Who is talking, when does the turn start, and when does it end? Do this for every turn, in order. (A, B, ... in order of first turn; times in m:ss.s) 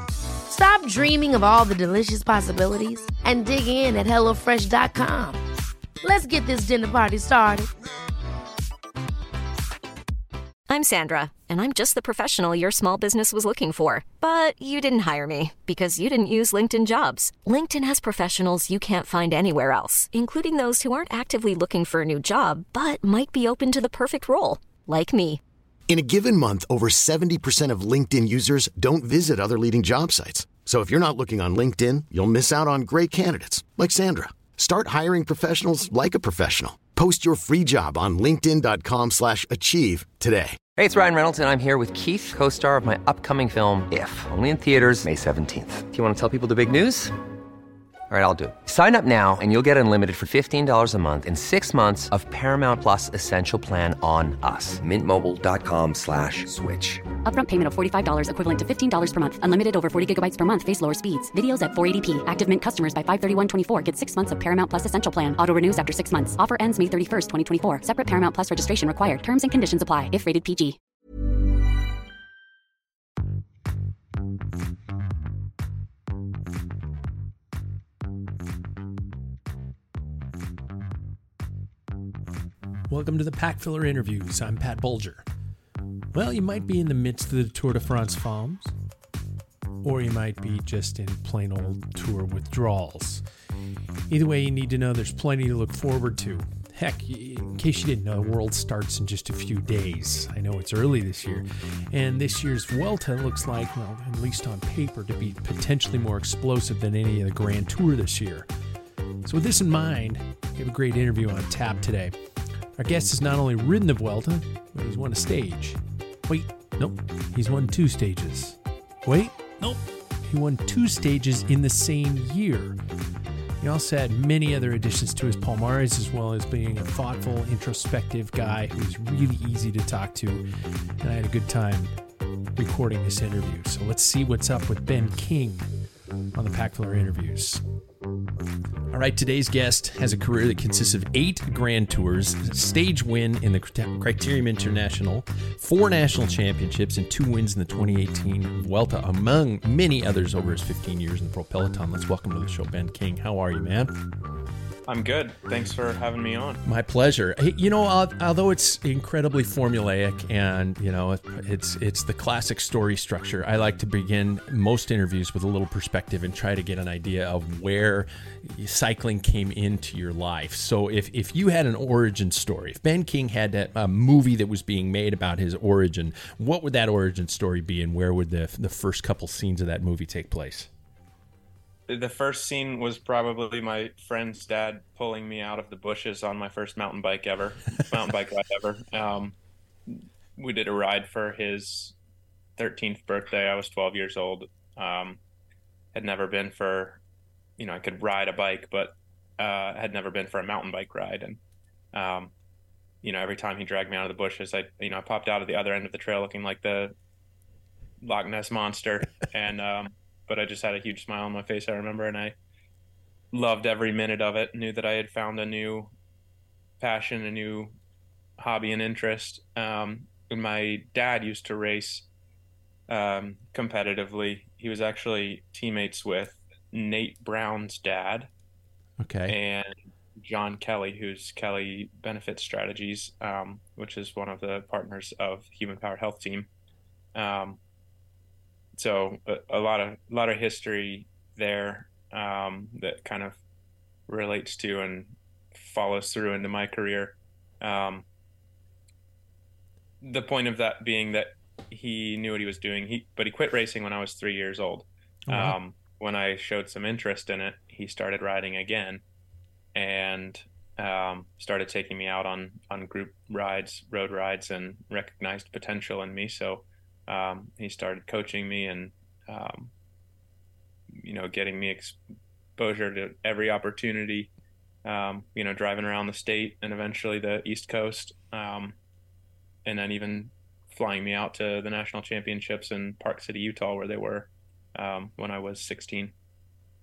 0:00.5-0:05.4 A
0:06.0-0:07.7 A
0:10.7-0:25.4 B
0:25.9-0:40.6 C
0:40.8-0:47.2 D
0:48.1-0:57.1 D
0:57.2-1:10.8 E
1:22.9-1:25.2 F
1:26.1-1:28.7 F
1:29.8-1:33.2 F
1:34.1-1:48.5 F
1:49.2-1:52.1 F
1:52.8-2:02.8 F
2:03.6-2:10.5 F
2:11.0-2:11.9 F
2:12.6-2:15.7 F
2:16.3-2:17.6 F
2:18.9-2:33.9 F
2:34.9-2:36.6 G
2:36.7-3:00.7 F
3:01.9-3:09.4 G
3:09.9-3:12.0 G
3:12.6-3:15.2 G
3:15.9-3:17.0 G
3:17.6-3:21.4 G
3:21.9-3:22.3 G
3:23.0-3:26.9 G
3:28.0-3:32.4 G
3:33.3-3:35.9 G
3:36.8-3:37.7 G
3:38.4-3:42.1 G
3:42.9-3:48.3 G
3:49.0-3:49.4 F
3:49.3-3:56.5 G
3:57.2-3:57.6 G
3:58.8-4:03.4 G
4:04.1-4:08.0 G
4:10.0-4:19.0 G
4:15.3-4:15.6 F
4:19.8-4:29.7 G
4:31.0-4:32.0 G
4:32.6-4:34.3 G
4:34.8-4:38.8 G
4:39.6-4:46.1 G